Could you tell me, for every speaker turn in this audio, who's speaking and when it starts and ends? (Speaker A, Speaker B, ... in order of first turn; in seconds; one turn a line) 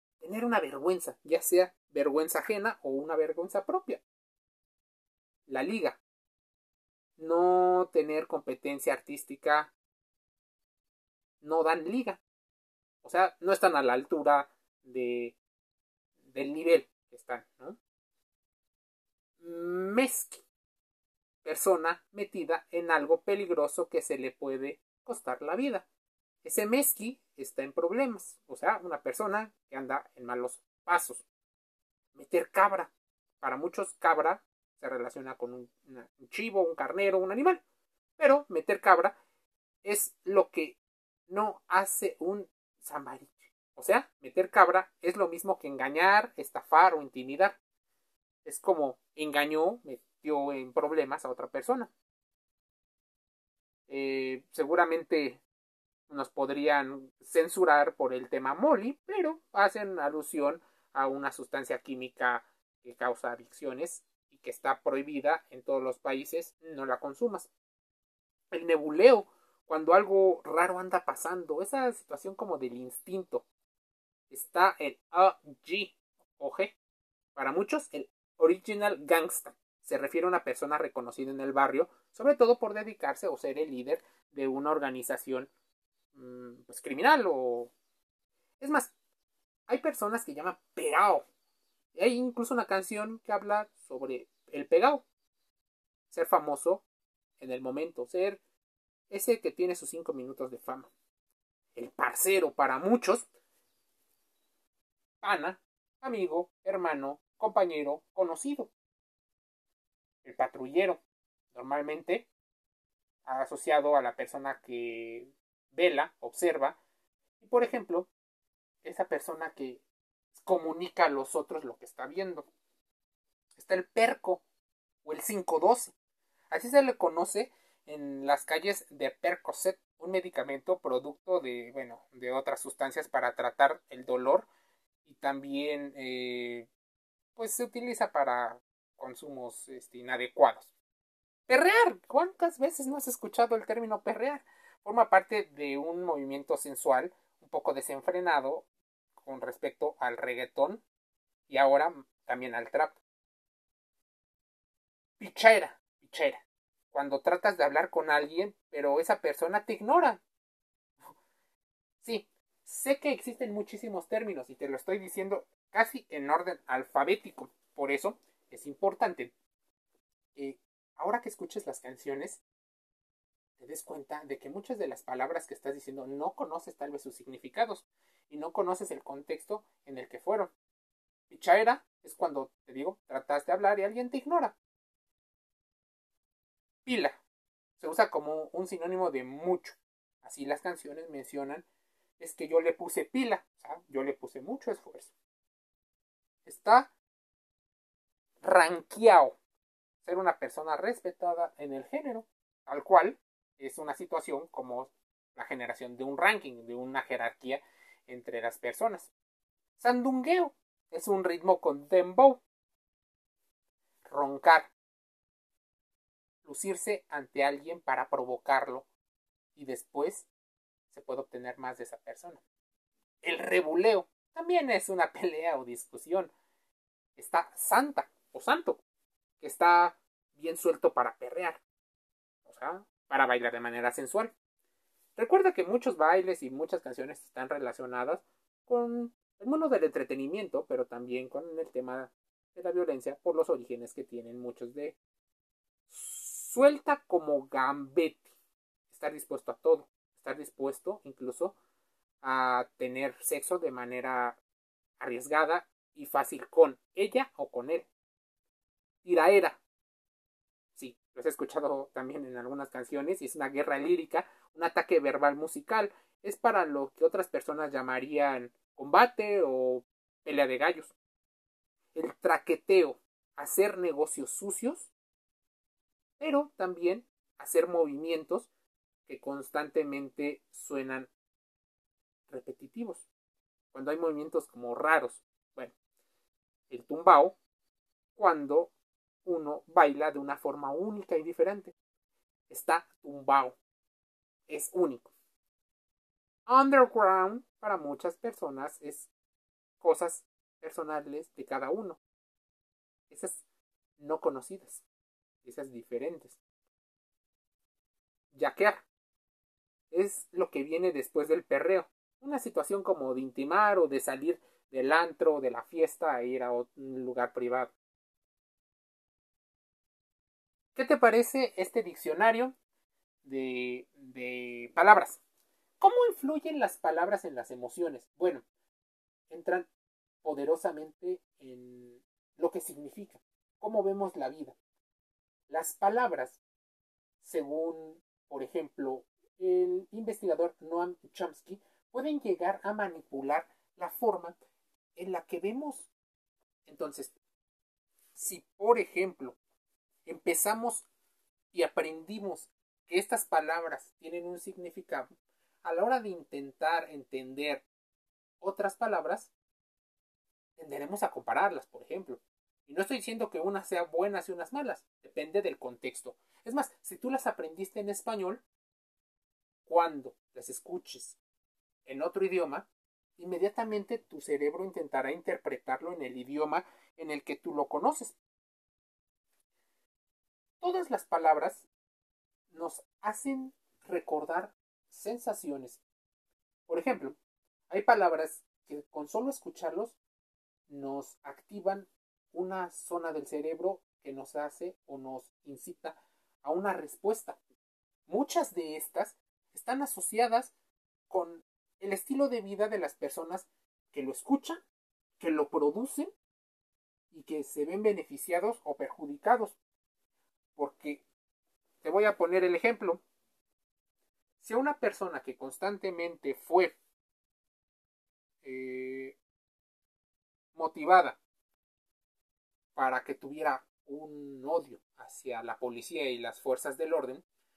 Speaker A: 0.2-4.0
Speaker A: 5.5-6.0
Speaker A: 7.2-9.7
Speaker A: 11.4-12.2
Speaker A: 13.0-15.3
Speaker A: 16.3-17.8
Speaker A: 19.4-20.4
Speaker A: 21.4-25.9
Speaker A: 26.4-31.2
Speaker A: 32.1-37.6
Speaker A: 38.2-39.1
Speaker A: 39.8-40.8
Speaker A: 41.3-47.6
Speaker A: 48.4-51.9
Speaker A: 53.9-55.4
Speaker A: 56.1-67.5
Speaker A: 68.5-73.5
Speaker A: 74.3-76.8
Speaker A: 77.3-85.5
Speaker A: 86.1-87.7
Speaker A: 88.6-88.9
Speaker A: 89.7-91.2
Speaker A: 91.9-95.0
Speaker A: 96.1-96.8
Speaker A: 97.4-98.4
Speaker A: 99.1-100.9
Speaker A: 101.8-103.3
Speaker A: 105.2-108.7
Speaker A: 110.2-111.0
Speaker A: 111.5-112.3
Speaker A: 113.2-116.8
Speaker A: 117.4-118.1
Speaker A: 118.8-119.8
Speaker A: 120.3-122.5
Speaker A: 123.6-124.4
Speaker A: 125.0-125.9
Speaker A: 126.5-134.5
Speaker A: 135.0-136.7
Speaker A: 137.3-140.7
Speaker A: 141.5-150.8
Speaker A: 151.5-153.0
Speaker A: 155.2-160.2
Speaker A: 162.0-169.3
Speaker A: 170.3-172.4
Speaker A: 173.6-180.5
Speaker A: 181.3-184.6
Speaker A: 186.8-187.2
Speaker A: 187.8-191.6
Speaker A: 192.2-195.1
Speaker A: 196.4-196.9
Speaker A: 198.4-199.4
Speaker A: 200.0-209.1
Speaker A: 209.8-212.4
Speaker A: 214.1-214.7
Speaker A: 216.4-218.8
Speaker A: 219.5-220.3
Speaker A: 220.9-222.4
Speaker A: 223.2-226.3
Speaker A: 227.2-228.8
Speaker A: 229.4-231.6
Speaker A: 232.4-234.3
Speaker A: 235.2-245.0
Speaker A: 245.9-248.2
Speaker A: 248.9-251.6
Speaker A: 252.2-254.4
Speaker A: 255.0-257.9
Speaker A: 259.0-259.6
Speaker A: 260.7-270.9
Speaker A: 271.9-274.9
Speaker A: 276.2-278.5
Speaker A: 279.1-281.1
Speaker A: 282.3-283.1
Speaker A: 283.7-285.7
Speaker A: 286.7-287.4
Speaker A: 288.1-288.7
Speaker A: 289.2-291.7
Speaker A: 292.5-293.6
Speaker A: 294.5-295.1
Speaker A: 296.4-299.1
Speaker A: 299.8-302.0
Speaker A: 303.1-303.4
Speaker A: 304.0-304.8
Speaker A: 305.4-306.4
Speaker A: 308.3-308.8
Speaker A: 309.9-317.7
Speaker A: 320.8-322.5
Speaker A: 323.2-325.2
Speaker A: 325.8-328.4
Speaker A: 329.3-329.7
Speaker A: 330.2-334.6
Speaker A: 335.5-336.4
Speaker A: 337.2-344.4
Speaker A: 344.9-345.9
Speaker A: 346.6-347.1
Speaker A: 348.1-349.4
Speaker A: 350.0-350.9
Speaker A: 351.5-355.1
Speaker A: 355.6-357.6
Speaker A: 358.4-359.3
Speaker A: 360.6-368.4
Speaker A: 369.6-371.2
Speaker A: 371.9-372.6
Speaker A: 373.2-378.2
Speaker A: 380.6-381.6
Speaker A: 382.5-385.8
Speaker A: 386.7-387.2
Speaker A: 387.7-390.0
Speaker A: 390.7-397.4
Speaker A: 398.1-400.5
Speaker A: 401.1-404.6
Speaker A: 405.2-406.1
Speaker A: 407.1-409.6
Speaker A: 410.6-411.0
Speaker A: 411.8-413.0
Speaker A: 414.4-416.7
Speaker A: 418.4-419.1
Speaker A: 420.5-421.2
Speaker A: 422.8-427.2